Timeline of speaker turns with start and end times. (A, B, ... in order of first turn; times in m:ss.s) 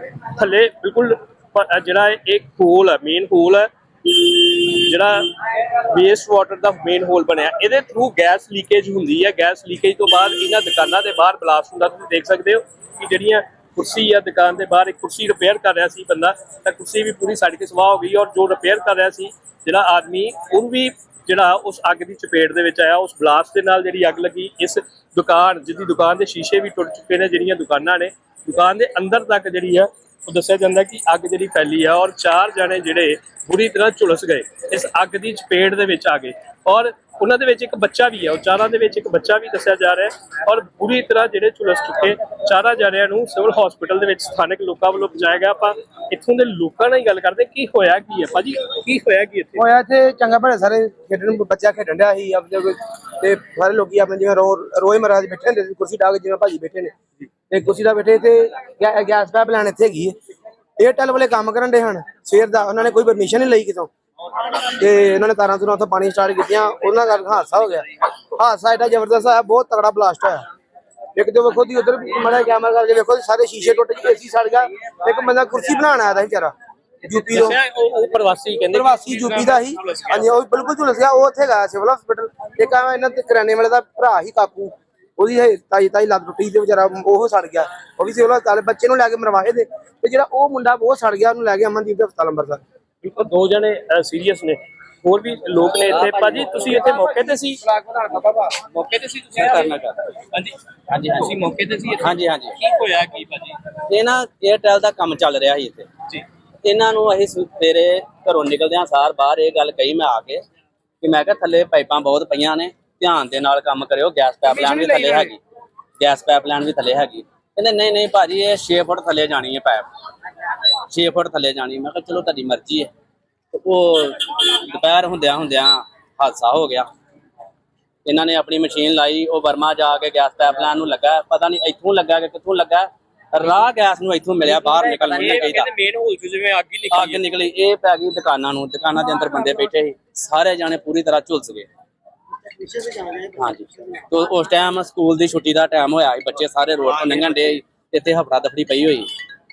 0:00.3-0:49.6 A
0:49.6-0:56.9 B
0:57.5-1:00.2 B
1:00.8-1:03.9 B
1:04.6-1:10.4 B
1:11.2-1:16.5 B
1:17.0-1:17.6 B
1:17.1-1:20.3 A
1:18.7-1:32.6 B
1:33.0-1:37.6 A
1:35.9-1:36.8 C
1:37.6-1:38.5 B
1:38.6-1:40.6 A
1:39.3-1:40.0 C
1:40.9-1:41.3 C
1:41.1-1:43.6 A
1:42.0-1:42.6 C
1:43.9-1:45.9 C
1:46.6-1:50.4 C
1:51.0-1:55.4 C
1:54.4-1:55.3 A
1:56.0-1:59.8 C
2:00.9-2:02.9 C
2:03.5-2:06.9 C
2:08.0-2:15.7 C
2:14.8-2:17.2 A
2:16.9-2:21.7 C
2:22.7-2:23.3 B
2:23.3-2:29.1 C
2:26.9-2:27.4 A